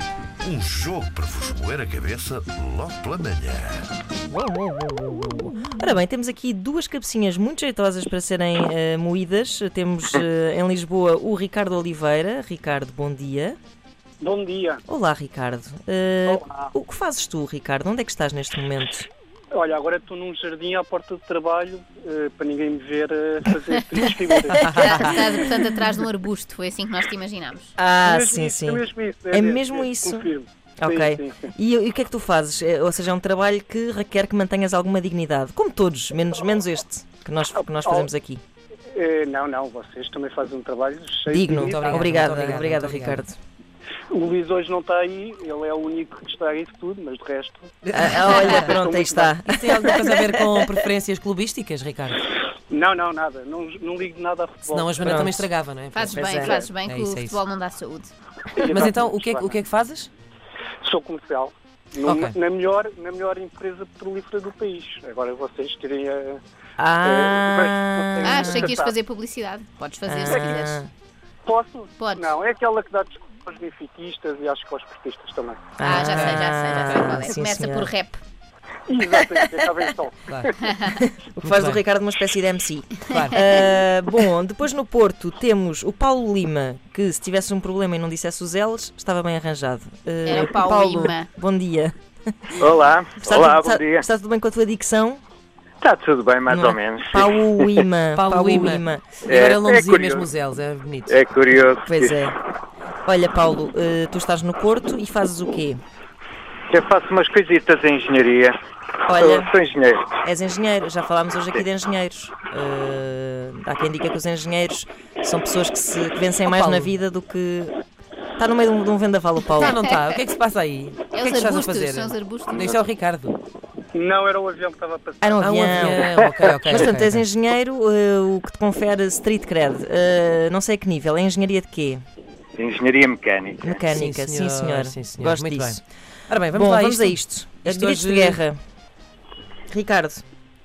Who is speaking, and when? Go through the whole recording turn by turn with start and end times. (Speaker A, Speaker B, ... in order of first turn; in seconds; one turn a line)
Speaker A: 0.4-3.9
Speaker B: 4.3-13.6
Speaker C: 14.2-14.8
Speaker B: 14.9-19.1
Speaker C: 16.3-16.7
Speaker C: 19.5-25.2
Speaker D: 24.6-25.2
Speaker E: 24.8-27.7
Speaker B: 24.9-25.5
Speaker B: 27.8-38.4
Speaker C: 28.0-31.5
Speaker C: 37.6-38.1
Speaker C: 38.9-42.1
Speaker B: 41.3-43.4
Speaker D: 41.6-43.2
Speaker C: 44.1-47.7
Speaker D: 47.8-48.8
Speaker B: 47.9-50.8
Speaker C: 48.3-49.4
Speaker D: 49.4-52.3
Speaker C: 52.7-55.3
Speaker D: 54.7-57.4
Speaker B: 55.0-55.5
Speaker E: 55.9-58.1
Speaker B: 56.1-56.6
Speaker C: 58.6-59.5
Speaker D: 58.7-60.1
Speaker C: 60.8-66.4
Speaker D: 62.0-62.4
Speaker B: 66.8-68.8
Speaker C: 67.0-68.9
Speaker E: 68.2-70.8
Speaker B: 70.1-70.9
Speaker C: 71.5-75.6
Speaker E: 72.0-72.3
Speaker B: 75.8-77.9
Speaker E: 75.8-78.2
Speaker D: 75.9-77.0
Speaker C: 78.9-80.5
Speaker B: 79.2-79.6
Speaker E: 80.6-81.0
Speaker B: 81.0-92.7
Speaker D: 81.4-81.8
Speaker D: 83.1-83.6
Speaker E: 90.2-91.3
Speaker F: 92.6-94.1
Speaker B: 93.2-95.2
Speaker F: 95.8-97.7
Speaker B: 96.5-99.1
Speaker D: 98.2-101.2
Speaker F: 99.2-100.3
Speaker F: 101.1-102.2
Speaker B: 101.9-102.4
Speaker B: 103.1-105.8
Speaker F: 106.7-108.6
Speaker B: 109.1-109.5
Speaker F: 109.1-110.1
Speaker B: 110.2-117.8
Speaker D: 116.5-117.0
Speaker B: 118.4-119.8
Speaker D: 119.5-123.4
Speaker E: 121.1-122.7
Speaker C: 123.9-125.9
Speaker B: 125.2-132.0
Speaker D: 125.4-127.2
Speaker F: 132.6-133.8
Speaker B: 133.6-135.8
Speaker D: 133.9-138.4
Speaker B: 136.5-138.6
Speaker B: 139.7-140.2